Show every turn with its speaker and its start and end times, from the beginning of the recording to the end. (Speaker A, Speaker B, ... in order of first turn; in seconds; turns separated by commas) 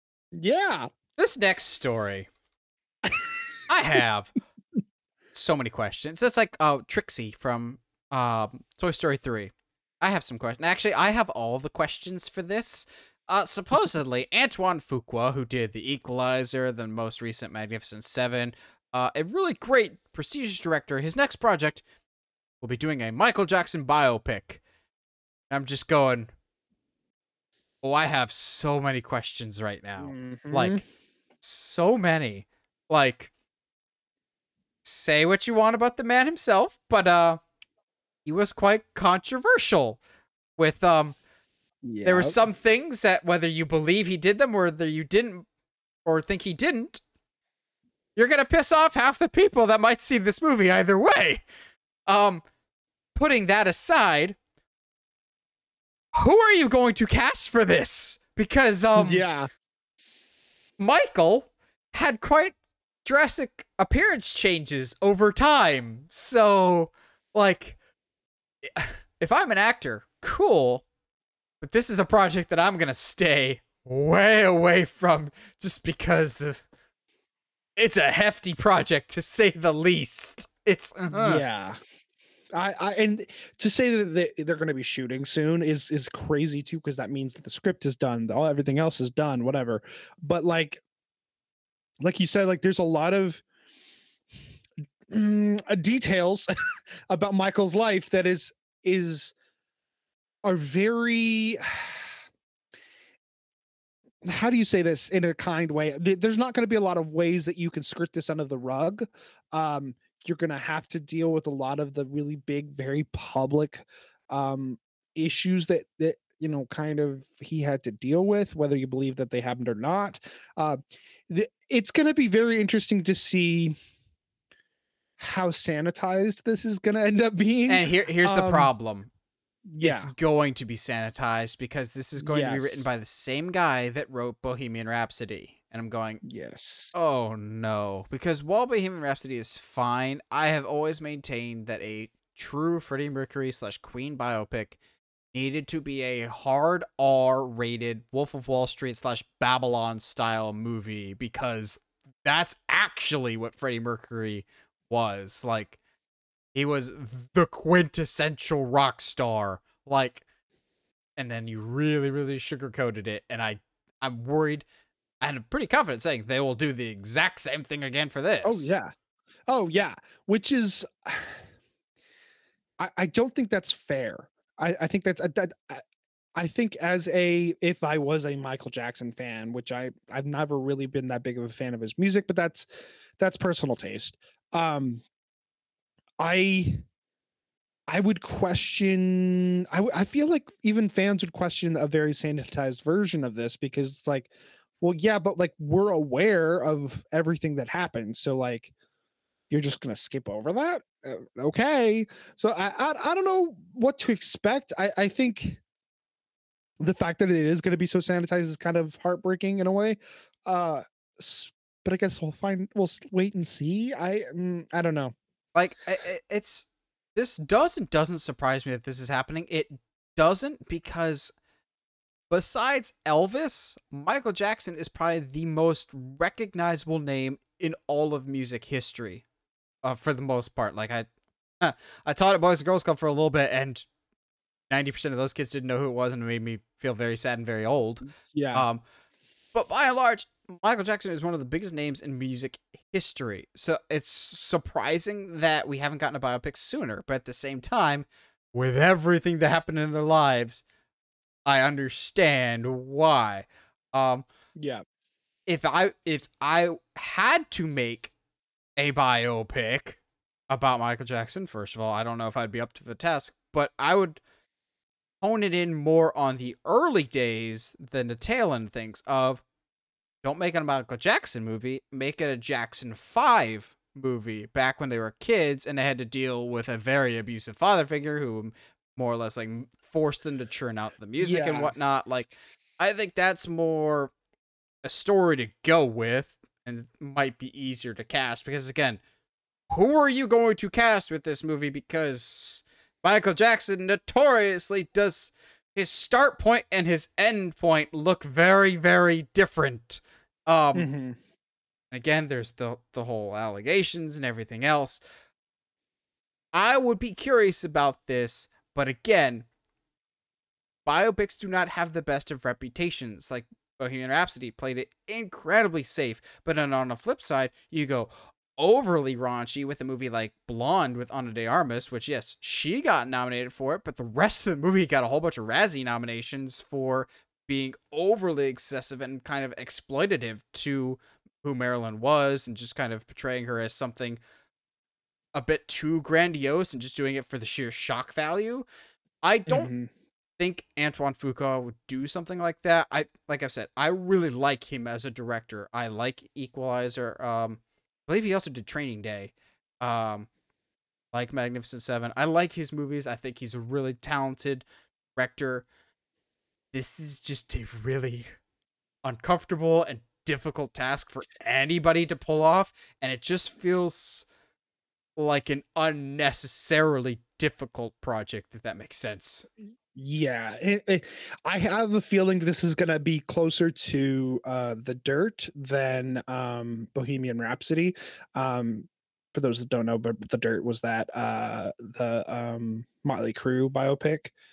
Speaker A: 0.3-0.9, Speaker B: 1.2-2.3, Speaker A: 3.0-3.5, Speaker B: 3.7-4.3, Speaker B: 5.3-21.8, Speaker B: 22.6-24.6, Speaker B: 25.5-26.3, Speaker B: 27.8-30.8, Speaker A: 30.0-30.8, Speaker B: 31.4-33.3, Speaker B: 34.8-37.4, Speaker B: 38.2-40.0, Speaker B: 40.6-41.2, Speaker A: 41.9-42.4, Speaker B: 42.0-45.5, Speaker B: 46.0-47.0, Speaker B: 48.2-51.4, Speaker B: 52.1-52.4, Speaker B: 53.1-54.4, Speaker B: 56.1-59.3, Speaker A: 59.0-59.5, Speaker B: 60.8-67.8, Speaker B: 68.7-70.8, Speaker B: 71.6-76.6, Speaker B: 77.8-81.4, Speaker A: 81.2-81.8, Speaker A: 82.5-90.8, Speaker A: 92.0-93.4, Speaker A: 95.1-96.5, Speaker A: 97.1-99.3, Speaker A: 100.5-102.2, Speaker A: 104.2-123.8, Speaker A: 125.2-128.7, Speaker B: 127.7-129.1, Speaker A: 129.7-130.1, Speaker B: 129.8-136.2, Speaker A: 132.2-132.9, Speaker A: 136.2-136.9, Speaker B: 136.9-144.8, Speaker B: 145.3-155.8, Speaker B: 156.5-160.2, Speaker B: 161.2-164.7, Speaker B: 165.2-168.8, Speaker A: 168.4-168.9, Speaker A: 169.5-171.4, Speaker A: 172.8-175.8, Speaker A: 176.4-182.7, Speaker A: 183.2-185.0, Speaker A: 186.2-186.8, Speaker A: 187.9-198.7, Speaker A: 199.5-205.6, Speaker A: 206.8-215.1, Speaker B: 215.6-221.3, Speaker B: 222.3-229.2, Speaker B: 229.8-231.1, Speaker B: 231.6-233.9, Speaker B: 234.7-238.8, Speaker A: 238.2-238.7, Speaker B: 239.5-250.6, Speaker B: 251.5-254.3, Speaker A: 254.6-254.8, Speaker B: 255.5-258.1, Speaker B: 258.8-264.2, Speaker B: 265.2-269.4, Speaker B: 270.2-284.1, Speaker A: 281.2-281.8, Speaker B: 284.8-289.0, Speaker B: 289.7-300.9, Speaker A: 300.7-301.2, Speaker B: 301.9-305.0, Speaker B: 306.5-309.5, Speaker B: 310.9-334.2, Speaker B: 335.3-338.7, Speaker B: 339.2-339.7, Speaker A: 339.5-339.9, Speaker B: 340.4-350.3, Speaker B: 351.1-354.6, Speaker B: 355.2-355.7, Speaker B: 356.7-358.3, Speaker B: 359.0-364.3, Speaker B: 365.2-369.5, Speaker A: 369.9-384.3